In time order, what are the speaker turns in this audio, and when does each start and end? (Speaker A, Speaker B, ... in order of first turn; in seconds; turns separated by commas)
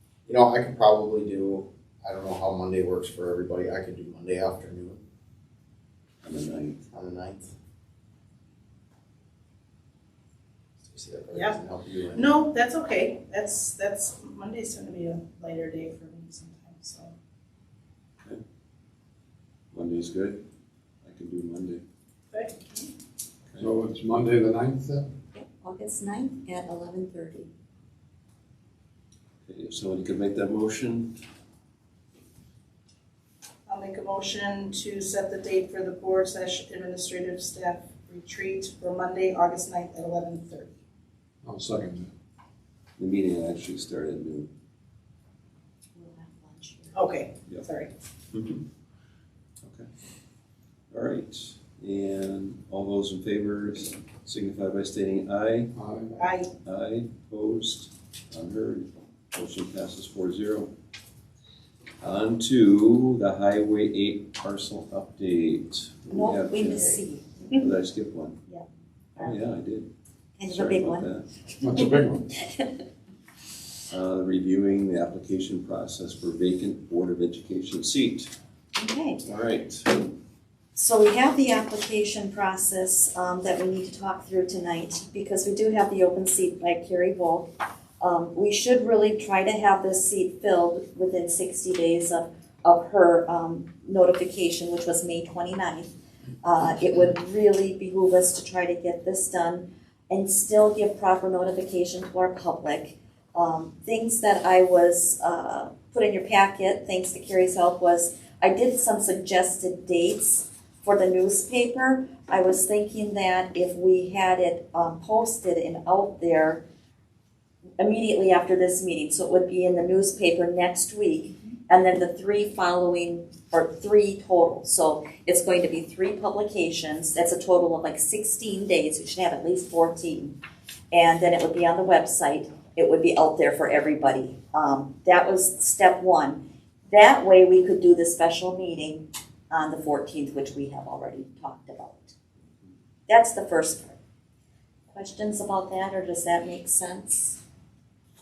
Speaker A: 0.3-5.0, Speaker B: 6.2-6.9, Speaker A: 6.9-7.5, Speaker A: 10.8-12.3, Speaker C: 11.3-11.6, Speaker C: 12.1-17.1, Speaker B: 19.7-20.4, Speaker B: 21.0-21.8, Speaker C: 22.3-22.9, Speaker D: 23.6-25.1, Speaker E: 25.3-27.5, Speaker B: 29.5-31.1, Speaker C: 33.7-40.7, Speaker D: 41.4-42.1, Speaker B: 43.0-44.5, Speaker E: 46.0-47.1, Speaker C: 46.9-47.9, Speaker B: 48.3-48.6, Speaker B: 49.6-49.9, Speaker B: 50.9-55.7, Speaker D: 55.8-56.1, Speaker C: 56.2-56.5, Speaker B: 56.6-60.7, Speaker B: 62.0-68.4, Speaker E: 66.1-67.6, Speaker B: 69.2-69.9, Speaker E: 70.4-71.1, Speaker B: 70.5-71.3, Speaker D: 71.6-72.3, Speaker E: 72.1-72.8, Speaker B: 73.9-78.3, Speaker E: 78.8-79.2, Speaker B: 79.2-80.1, Speaker E: 80.7-87.5, Speaker E: 88.0-116.6, Speaker E: 117.8-130.4, Speaker E: 130.9-142.2, Speaker E: 143.1-144.0, Speaker E: 144.9-147.4